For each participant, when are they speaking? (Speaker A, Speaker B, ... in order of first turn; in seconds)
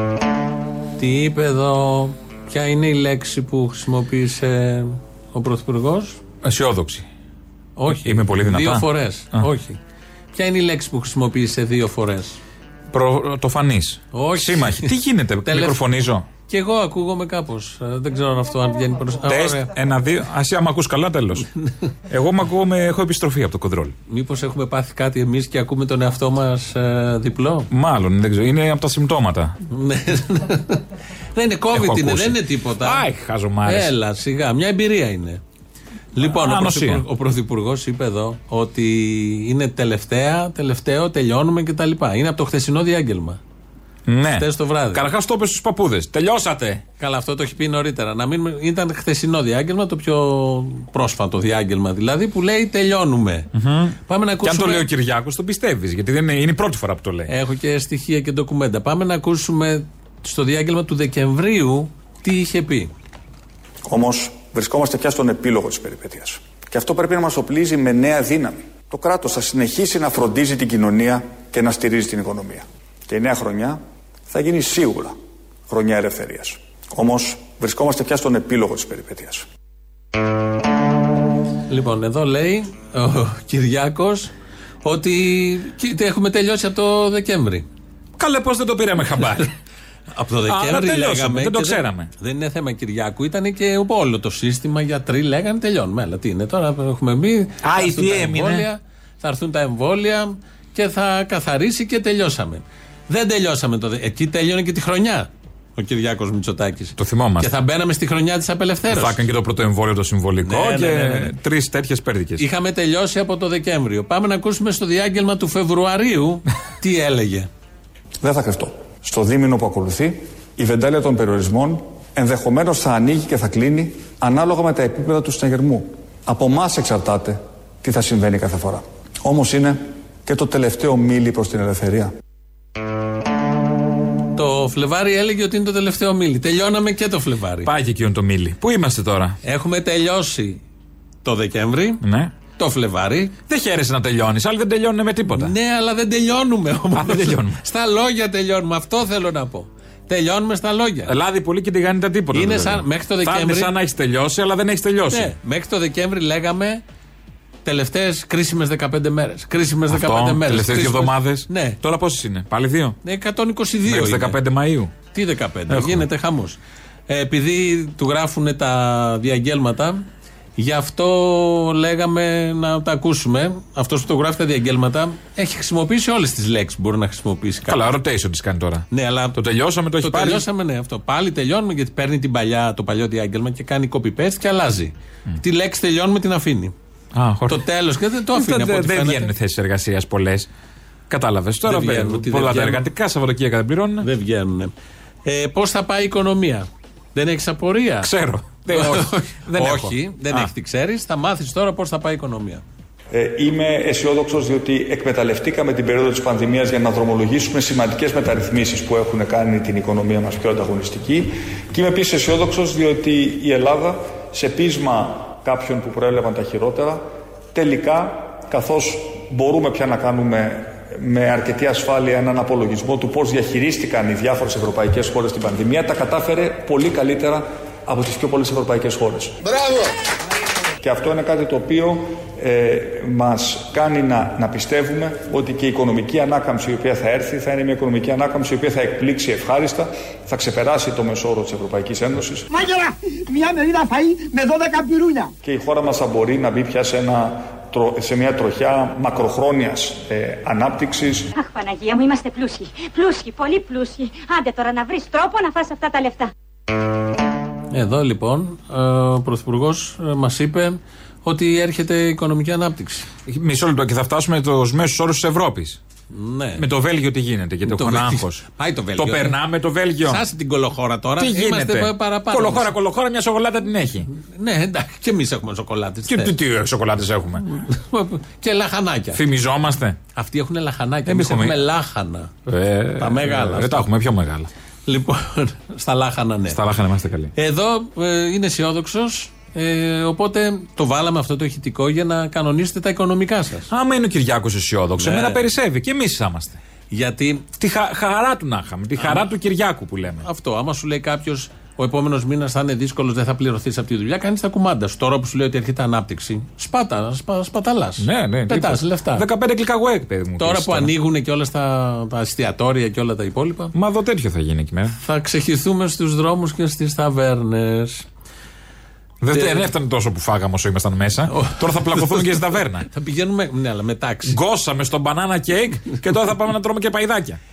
Speaker A: 1.0-6.2, 7.8-9.8, 10.3-12.4, 14.1-14.9, 15.4-15.8, 16.5-19.7, 24.1-27.7, 29.7-33.0, 33.6-35.4, 36.1-43.4, 44.4-45.0, 47.0-53.5, 54.1-54.9, 57.3-62.9, 81.7-84.3, 84.8-87.7, 90.1-109.2, 110.4-111.3, 112.4-117.5, 134.3-137.7, 139.4-140.6, 141.2-142.0, 142.6-143.3, 145.3-151.1, 152.3-153.7, 155.1-156.8, 157.6-161.8, 163.0-164.4, 165.1-170.1, 170.6-177.8, 178.9-179.4, 180.0-186.7, 187.5-189.3, 191.6-192.8, 194.0-194.7, 195.2-198.1, 198.7-202.6, 257.7-263.1, 266.1-266.6, 267.6-269.4, 270.0-272.7, 274.1-276.3, 277.4-279.2, 280.1-282.3, 283.0-283.9, 284.9-286.6, 287.3-293.7, 295.0-295.4, 296.9-297.5, 299.0-299.3, 300.2-309.3, 310.4-313.7, 315.0-318.1, 319.3-319.7, 321.3-324.4
Speaker B: 6.4-7.0, 8.0-9.4, 12.9-16.2, 19.2-21.5, 22.1-23.9, 27.7-29.5, 31.7-33.9, 36.2-37.0, 44.1-46.8, 53.5-57.3, 88.2-89.5, 90.5-92.1, 97.6-98.7, 107.0-107.5, 108.9-112.4, 137.6-139.4, 142.0-142.3, 143.5-145.5, 146.9-147.6, 151.1-155.3, 159.9-163.0, 163.8-164.9, 165.7-166.0, 177.7-180.4, 187.1-187.6, 188.3-190.5, 191.1-194.1, 198.0-200.5, 263.3-265.8, 266.6-268.4, 269.0-270.2, 271.2-274.1, 276.1-277.4, 279.1-280.0, 281.1-281.6, 282.5-284.5, 286.5-287.3, 293.7-296.6, 297.6-300.2, 308.0-310.9, 313.7-314.9, 319.2-322.9, 324.3-327.4
Speaker C: 63.8-75.2, 75.7-79.5, 118.2-132.1, 203.1-229.3, 230.8-242.5, 245.4-251.3
Speaker D: 242.5-245.3
Speaker E: 251.3-256.3